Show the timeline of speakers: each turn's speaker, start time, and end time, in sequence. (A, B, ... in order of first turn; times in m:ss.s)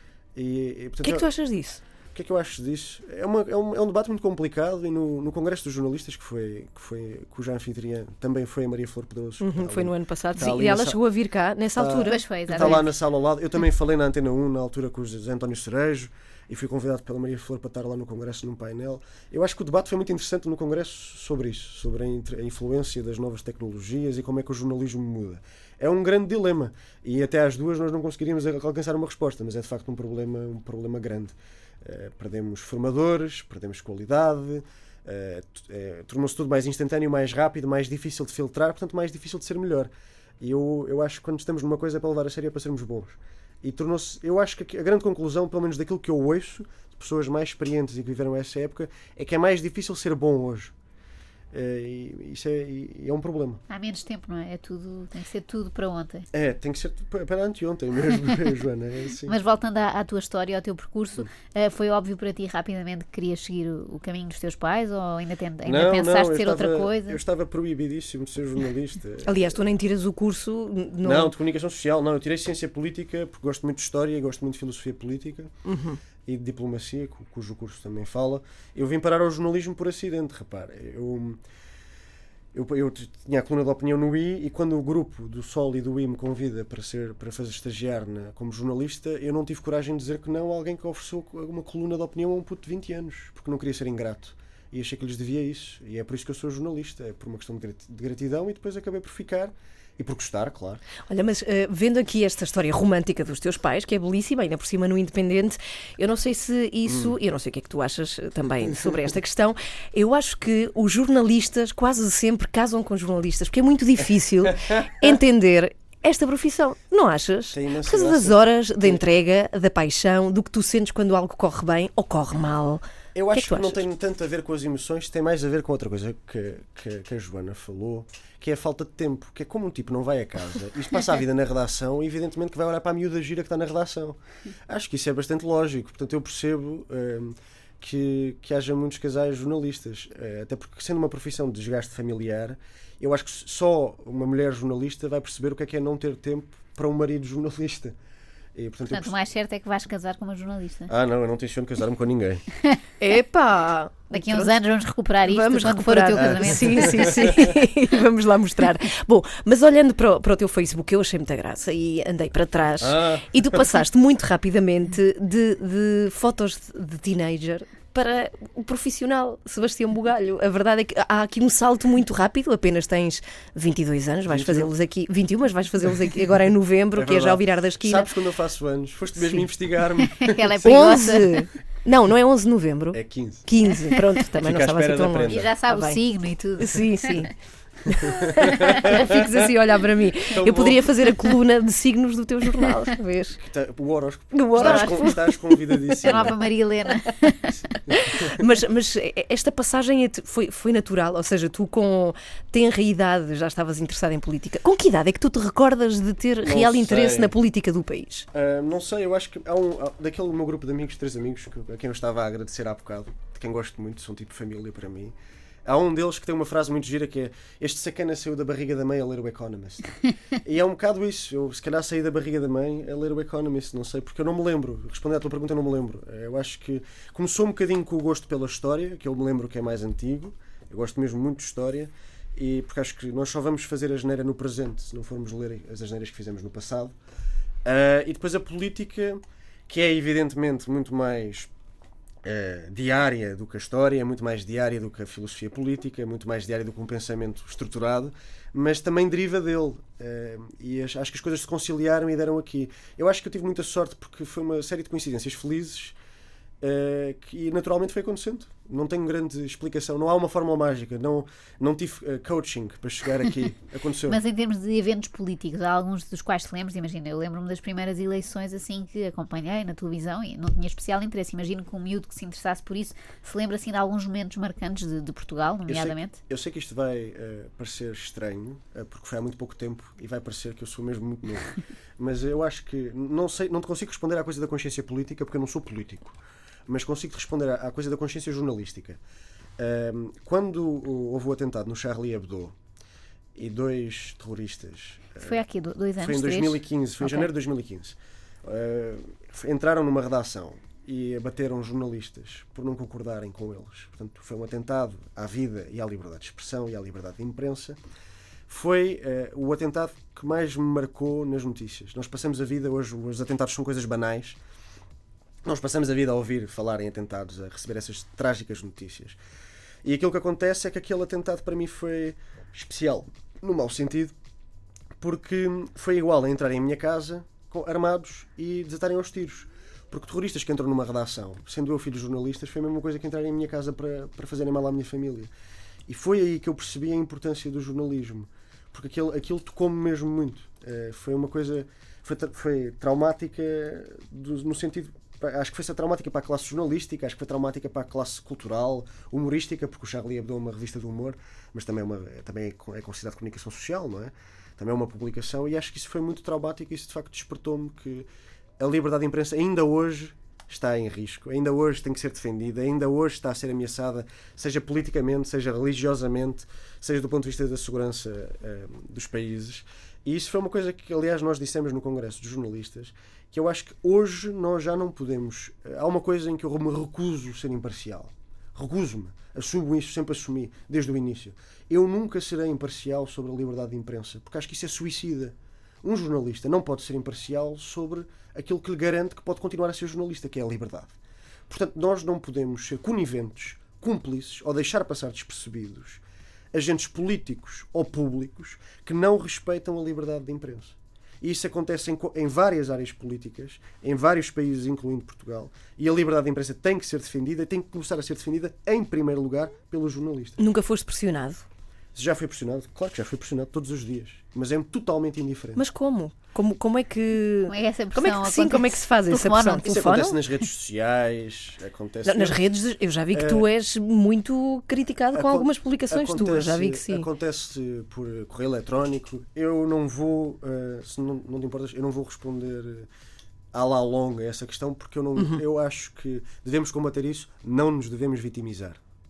0:00.4-0:01.3 A
0:01.0-0:01.8 B
0:02.1-0:11.0 A
0:09.4-0:12.8 B
0:11.8-0:50.7 A
0:12.0-0:12.9 C
0:51.5-0:53.6 A
0:53.7-0:56.3 C
0:56.3-0:59.4 A
0:59.3-1:07.2 C
1:05.6-1:09.6 A
1:09.2-1:11.3 B
1:11.0-1:15.5 A
1:15.6-1:16.0 B
1:16.2-1:21.4 A
1:22.5-1:40.8 A
1:41.1-2:03.8 B
1:46.9-1:47.2 A
1:54.5-1:55.0 A
1:57.5-1:59.0 A
2:03.2-2:28.0 A
2:28.6-2:29.2 A
2:28.9-2:30.9 C
2:30.9-2:32.4 A
2:33.0-2:34.5 B
2:34.1-2:37.5 C
2:35.2-2:58.1 B
2:36.2-2:37.4 A
2:42.8-2:43.4 A
2:54.3-2:54.7 A
2:57.0-3:00.8 A
2:59.2-2:59.4 B
3:00.2-3:01.4 C
3:00.6-3:06.0 B
3:02.9-3:03.5 A
3:04.2-3:05.5 A
3:05.3-3:07.3 C
3:06.6-3:07.3 B
3:07.9-3:13.4 B
3:08.0-3:09.5 A
3:10.3-3:10.9 A
3:13.4-3:16.4 A
3:14.3-3:15.4 B
3:14.6-3:15.2 C
3:16.0-3:17.5 C
3:17.9-3:28.3 B
3:17.9-3:18.4 A
3:26.4-3:27.4 A
3:28.3-3:57.0 A
3:57.6-4:01.5 A
4:02.2-4:16.0 A
4:16.6-4:24.2 A
4:24.1-4:36.2 C
4:35.7-4:49.0 A
4:49.6-4:52.6 A
4:53.4-4:55.4 A
4:55.2-4:57.3 C
4:56.0-5:07.8 A
5:08.5-5:14.4 A
5:15.4-5:19.2 A
5:19.8-5:24.2 A
5:25.0-5:35.3 A
5:35.9-5:58.1 A
5:58.6-6:30.9 A
6:31.5-6:36.0 A
6:36.5-6:50.4 A
6:50.4-6:51.4 B
6:52.0-6:55.6 A
6:55.6-7:00.2 B
6:57.5-6:59.8 C
6:59.6-7:02.6 A
7:02.0-7:07.1 B
7:03.1-7:03.5 A
7:05.1-7:12.9 A
7:13.5-7:18.8 A